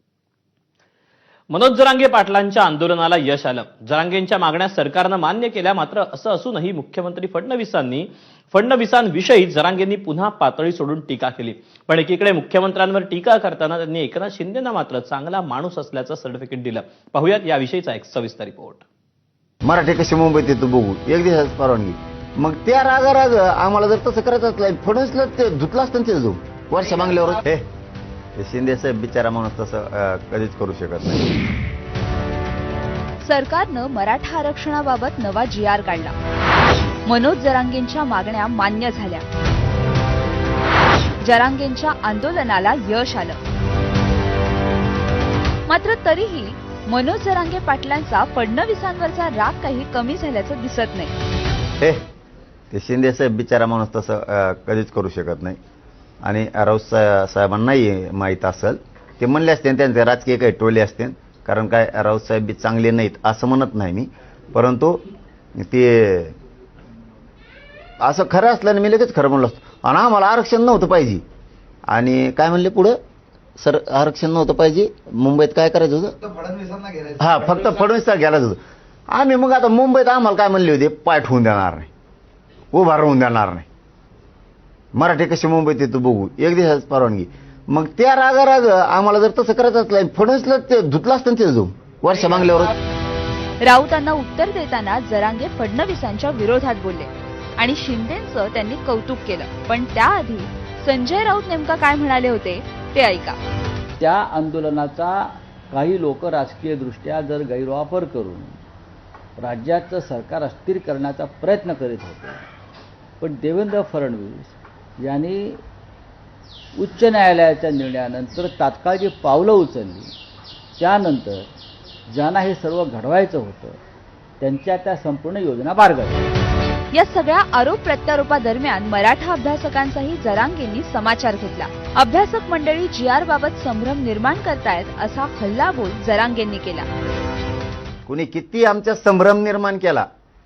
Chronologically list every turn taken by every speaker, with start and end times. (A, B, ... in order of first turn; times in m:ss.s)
0:01.5-0:18.8 A
0:19.6-0:27.7 B
0:28.4-0:31.3 B
0:33.2-0:36.1 C
0:37.0-0:39.2 C
0:41.2-0:43.4 C
0:45.7-0:51.1 C
0:52.7-0:55.6 B
0:56.2-1:05.0 B
1:05.6-1:06.3 B
1:08.0-1:11.2 B
1:11.9-1:13.0 B
1:13.6-1:16.1 B
1:17.2-1:18.6 B
1:19.1-1:21.9 B
1:22.7-1:23.7 B
1:24.9-1:32.8 B
1:33.6-1:43.4 C
1:44.0-1:48.6 D
1:49.4-1:52.4 D
1:53.2-1:55.6 D
1:56.8-2:00.1 D
2:00.8-2:01.5 D
2:02.1-2:03.8 D
2:04.4-2:06.2 D
2:06.9-2:16.9 C
2:18.1-2:20.0 B